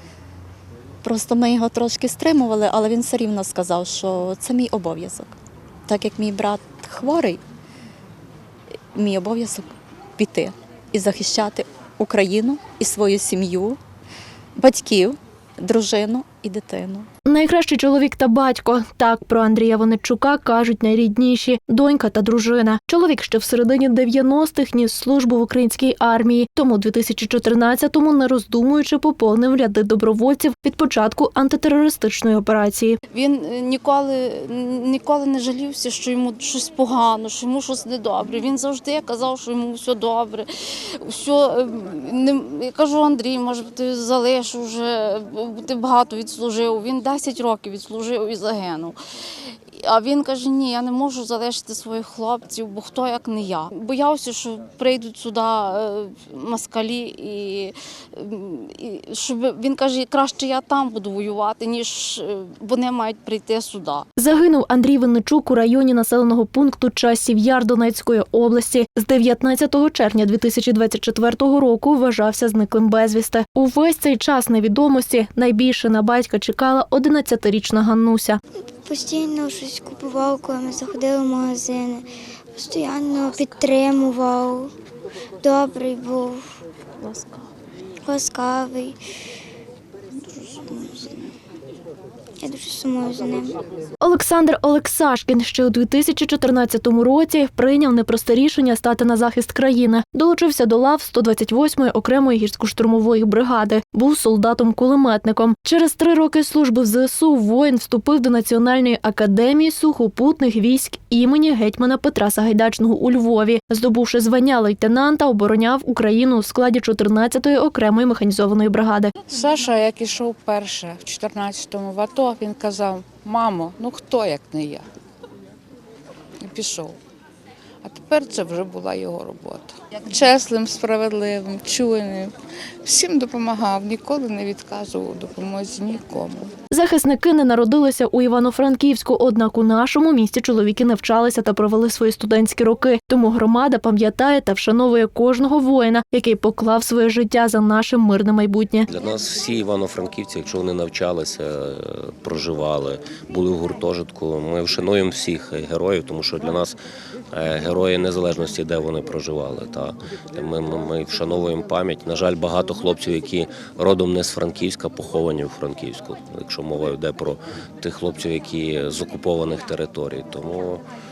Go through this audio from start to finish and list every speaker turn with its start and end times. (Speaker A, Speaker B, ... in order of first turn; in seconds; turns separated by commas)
Speaker A: 1.0-5.3, Speaker A: 5.9-7.4, Speaker A: 8.9-13.8, Speaker A: 14.6-17.1, Speaker B: 17.2-33.0, Speaker C: 33.1-49.0, Speaker C: 49.7-64.0, Speaker B: 64.2-78.4, Speaker D: 78.8-84.7, Speaker D: 85.4-86.5, Speaker D: 88.0-89.0, Speaker D: 90.4-91.3, Speaker D: 92.4-93.6, Speaker B: 94.0-119.1, Speaker E: 119.3-124.8, Speaker E: 126.4-127.0, Speaker E: 127.8-132.3, Speaker E: 132.8-136.5, Speaker B: 136.7-148.9, Speaker F: 148.9-156.8, Speaker F: 157.3-170.8